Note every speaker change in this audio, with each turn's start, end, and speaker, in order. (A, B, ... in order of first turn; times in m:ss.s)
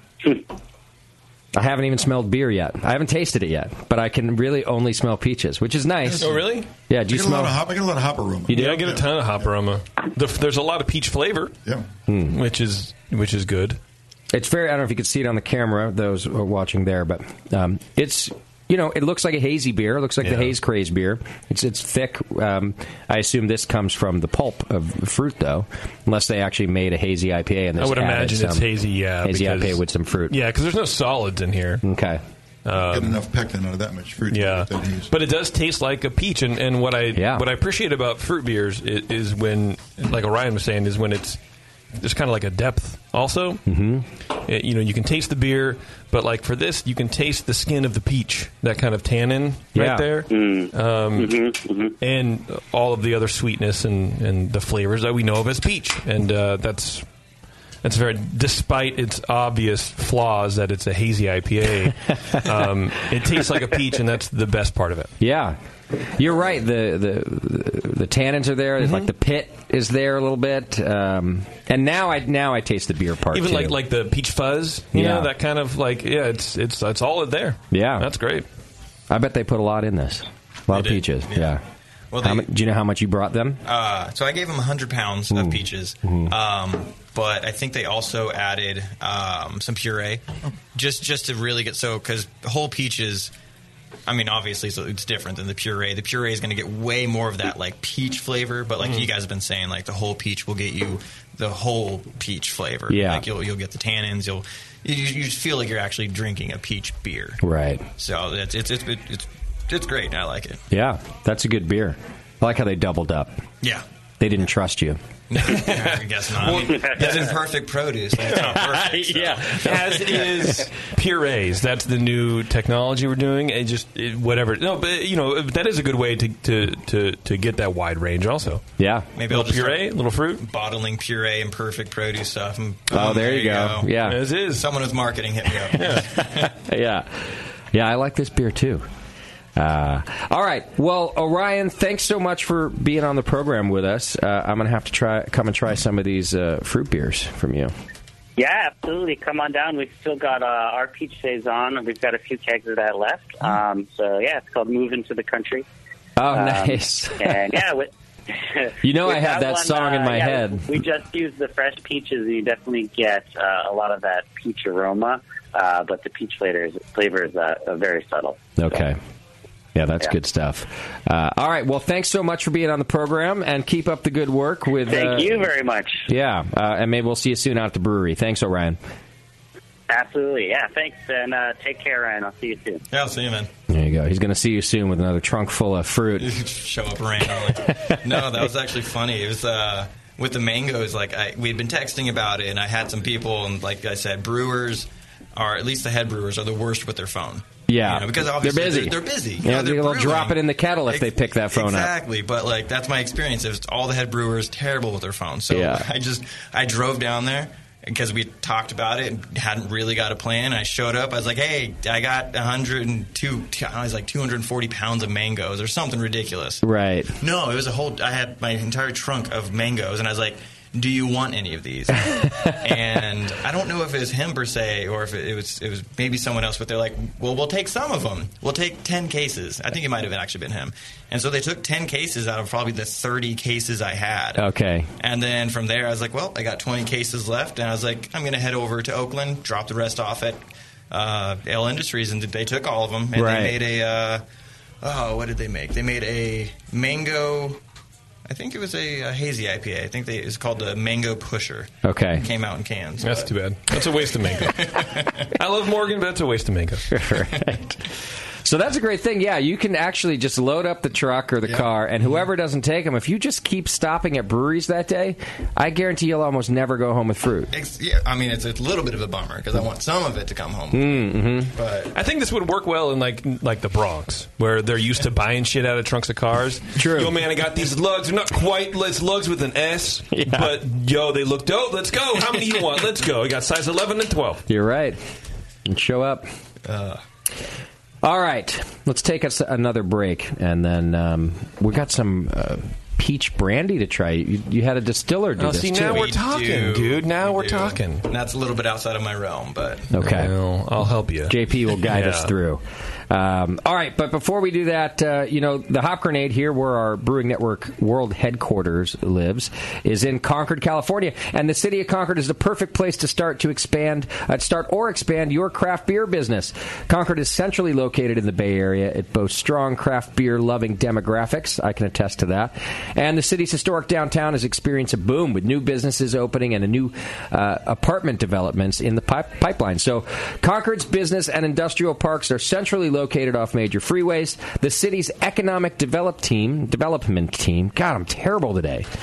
0:01.6-0:07.6 A
0:06.0-0:06.5 B
0:06.2-0:06.7 C
0:07.1-0:09.4 B
0:08.5-0:08.8 A
0:08.5-0:11.5 C
0:12.1-0:12.4 A
0:12.3-0:13.8 C
0:14.3-0:28.7 A
0:20.2-0:20.5 C
0:27.8-0:31.8 C
0:29.2-0:30.4 A
0:31.8-0:32.2 A
0:32.6-0:33.2 C
0:32.8-0:35.1 B
0:34.3-0:41.4 C
0:37.2-0:37.5 A
0:42.0-0:43.6 C
0:43.7-0:44.1 A
0:44.4-0:51.5 C
0:49.7-0:50.1 A
0:50.3-0:52.0 D
0:52.0-0:57.0 C
0:57.8-1:05.1 C
1:05.2-1:13.8 A
1:08.8-1:09.1 C
1:13.3-1:18.4 C
1:14.9-1:15.3 A
1:17.7-1:18.1 A
1:19.1-1:21.6 A
1:20.7-1:22.5 E
1:22.2-1:23.6 A
1:23.6-1:33.3 E
1:25.3-1:26.3 A
1:34.1-1:47.4 E
1:42.9-1:43.2 A
1:47.4-1:47.9 A
1:48.0-1:50.6 E
1:50.7-1:53.4 A
1:54.2-1:55.0 A
1:55.3-2:00.7 E
1:55.5-1:57.3 C
1:58.4-1:59.6 A
1:59.4-2:08.6 C
2:08.8-2:09.1 A
2:09.2-2:16.5 E
2:09.3-2:10.4 C
2:12.9-2:14.2 A
2:14.0-2:14.7 C
2:15.7-2:18.9 A
2:15.7-2:16.1 C
2:19.6-2:27.7 A
2:28.4-2:35.6 D
2:36.2-2:37.4 A
2:36.3-2:48.8 D
2:38.8-2:40.7 A
2:48.6-2:49.0 A
2:49.8-2:55.5 A
2:54.9-2:56.1 D
2:56.1-2:58.8 A
2:59.9-3:02.8 D
3:02.9-3:03.5 E
3:03.7-3:06.3 A
3:06.2-3:36.6 E
3:07.7-3:08.0 A
3:17.7-3:21.9 A
3:25.5-3:25.9 A
3:36.6-3:37.1 A
3:37.2-3:54.4 E
3:54.4-3:54.9 A
3:55.0-4:04.2 E
4:03.2-4:03.6 A
4:04.8-4:07.6 E
4:08.3-4:15.3 E
4:11.8-4:12.2 A
4:13.0-4:16.9 C
4:16.9-4:17.8 A
4:18.4-4:27.5 A
4:21.4-4:22.3 E
4:27.5-4:31.9 E
4:30.7-4:31.5 A
4:31.9-4:44.4 C
4:36.8-4:37.1 A
4:40.1-4:40.5 A
4:44.5-4:45.0 A
4:45.6-4:46.3 A
4:46.6-4:47.0 E
4:48.0-4:56.0 A
4:55.4-4:58.1 C
4:55.8-4:59.9 E
4:59.9-5:00.3 A
5:00.0-5:02.3 C
5:01.3-5:38.9 A